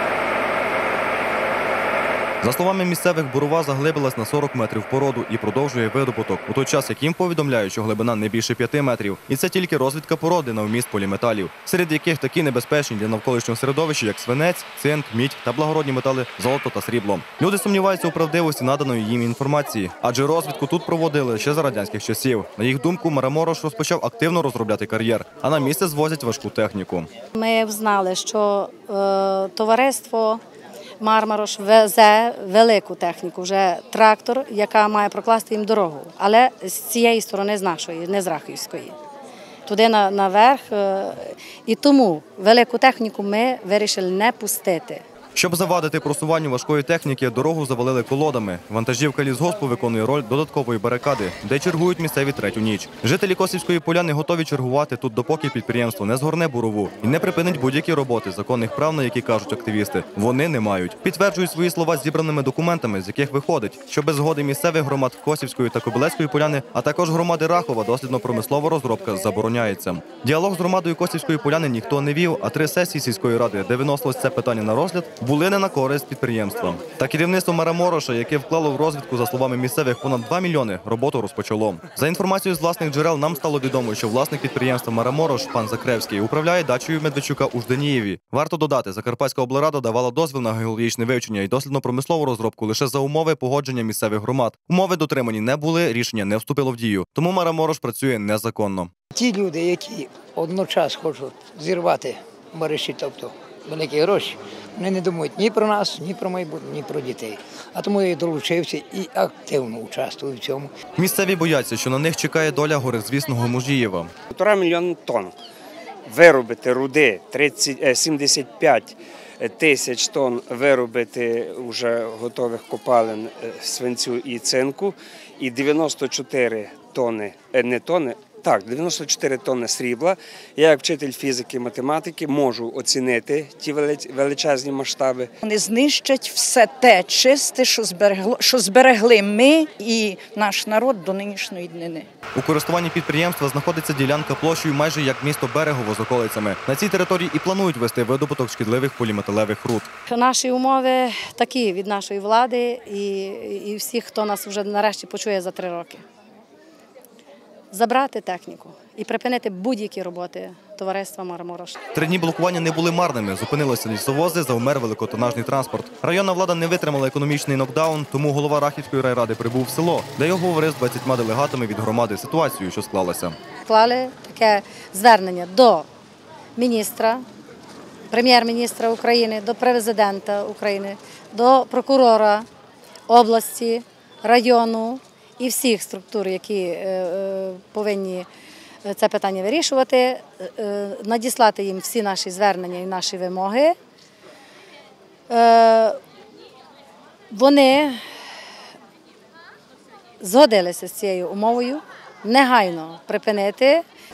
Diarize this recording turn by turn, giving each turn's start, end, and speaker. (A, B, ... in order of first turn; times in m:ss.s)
0:02.4-0:27.1 A
0:27.4-0:30.4 B
0:31.0-0:39.0 B
0:39.7-0:45.0 B
0:45.3-1:38.9 A
1:39.1-1:50.7 C
1:51.0-1:54.1 A
1:54.3-1:55.4 D
1:56.1-2:15.3 D
2:15.4-2:22.1 E
2:22.4-2:29.9 A
2:30.1-2:36.0 B
2:37.7-2:41.8 B
2:41.9-2:53.4 A
2:53.6-2:55.9 B
2:56.6-2:57.2 B
2:58.1-3:02.5 B
3:03.1-3:08.3 B
3:08.8-3:13.7 B
3:15.3-3:16.0 B
3:17.3-3:18.0 B
3:20.2-3:23.8 B